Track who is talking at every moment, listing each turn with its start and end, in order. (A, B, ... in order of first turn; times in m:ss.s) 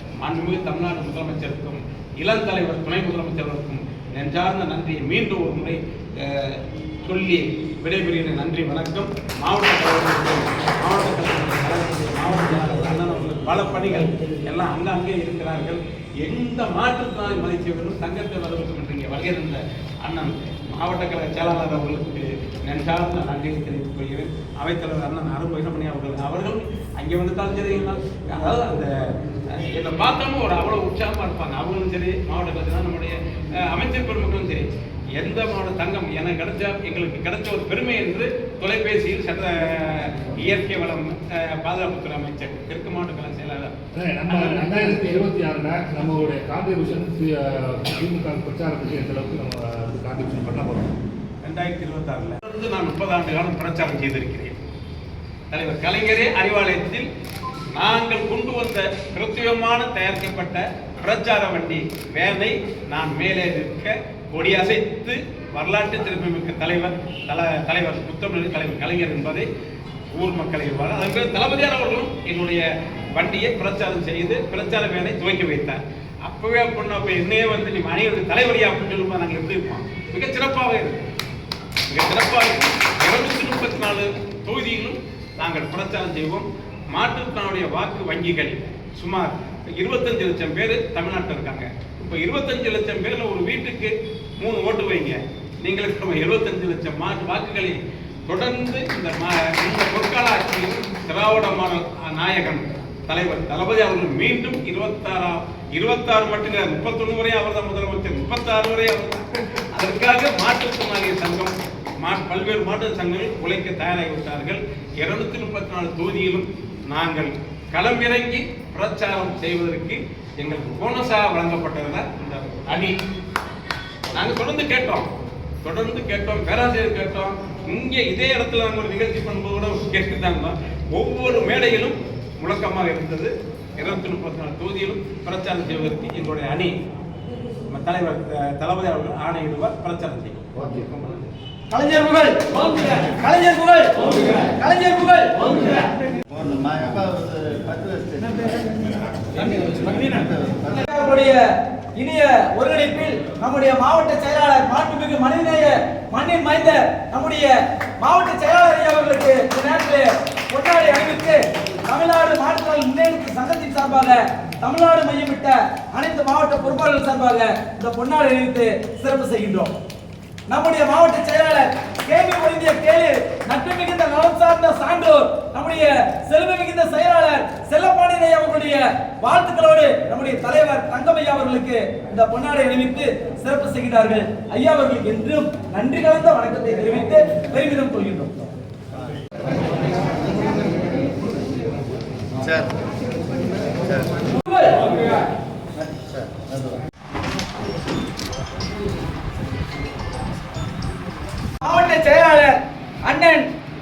0:00.2-0:28.9 A
0:29.5-0:43.7 A
0:44.0-0:51.0 B
0:44.3-0:45.2 A
0:51.4-0:54.6 A
0:55.5-0:57.1 A
0:57.8-1:09.5 A
1:10.1-1:21.0 A
1:21.9-2:03.0 A
2:04.1-2:05.1 A
2:05.6-2:16.7 A
2:17.7-2:20.4 A
2:21.7-2:25.9 C
2:26.3-2:30.9 D
2:30.8-2:31.4 C
2:32.0-2:49.7 C
2:50.5-3:08.3 C
3:12.4-3:12.7 D
3:13.8-3:14.2 D
3:14.4-3:15.0 C
3:15.9-3:16.8 D
3:21.6-3:22.6 C
3:23.1-3:23.4 C